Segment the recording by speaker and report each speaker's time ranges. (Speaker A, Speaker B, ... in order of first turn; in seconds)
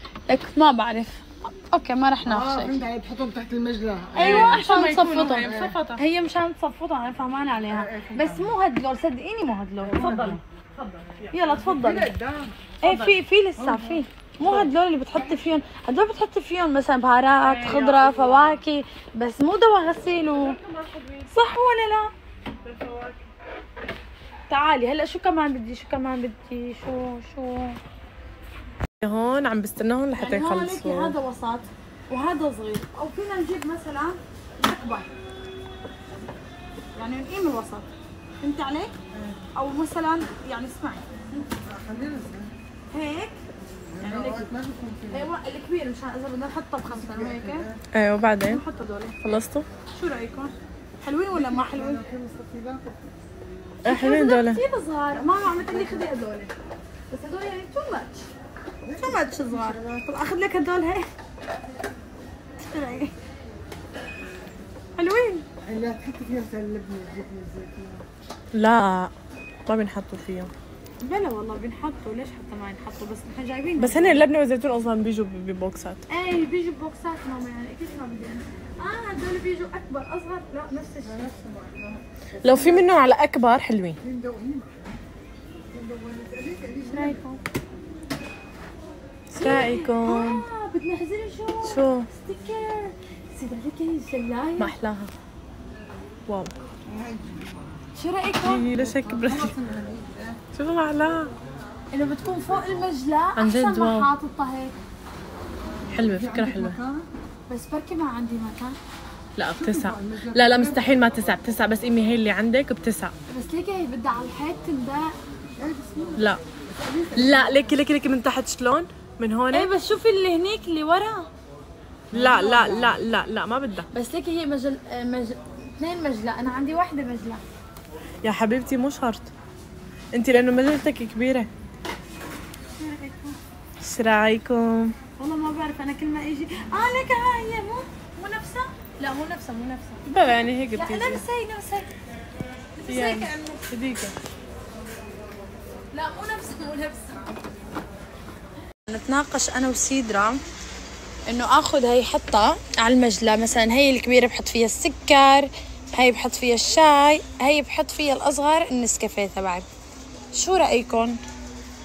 Speaker A: 0.3-2.8, 4.1-10.4, 11.3-12.1, 12.8-20.6, 21.3-22.1, 24.5-27.8, 30.1-35.1, 36.9-37.9, 38.4-39.0, 39.5-41.5, 42.9-43.4, 44.0-44.5, 45.1-47.7, 48.4-49.2, 49.9-52.1, 53.8-56.5, 57.1-58.3, 58.9-61.1, 62.6-63.1, 65.0-65.5, 71.0-74.2, 76.1-81.4, 86.8-87.4, 89.3-94.8, 97.9-98.7, 101.9-104.7, 107.5-108.8, 113.3-115.2, 119.5-121.3, 123.9-127.4, 132.8-133.4, 135.2-141.9, 142.8-143.7, 145.9-147.4, 148.8-150.4, 151.2-159.7, 160.3-161.2
Speaker B: 2.2-4.4, 5.3-5.8, 7.7-8.5, 11.8-12.5, 13.6-14.0, 41.6-42.5, 44.0-45.2, 47.0-47.7, 51.3-53.0, 58.9-60.0, 65.6-68.0, 81.3-82.0, 84.1-84.6, 85.7-87.1, 96.9-97.6, 98.9-100.4, 106.3-107.0, 109.7-110.6, 115.6-117.2, 122.3-122.7
Speaker C: 4.1-6.0, 9.8-11.6, 12.8-13.2, 14.4-14.7, 17.4-18.6, 20.3-21.3, 22.6-23.2, 29.0-31.2, 47.9-48.6, 49.2-49.6, 53.8-54.6, 68.5-69.1, 69.7-70.5, 73.8-76.0, 82.4-84.0, 89.3-90.5, 91.6-92.1, 94.6-95.1, 96.3-96.5, 98.4-99.6, 100.5-101.3, 103.4-104.1, 105.9-106.8, 109.3-113.1, 117.1-119.7, 122.1-123.9, 128.2-129.3, 130.1-131.5, 133.8-134.9, 140.1-141.2, 142.9-144.1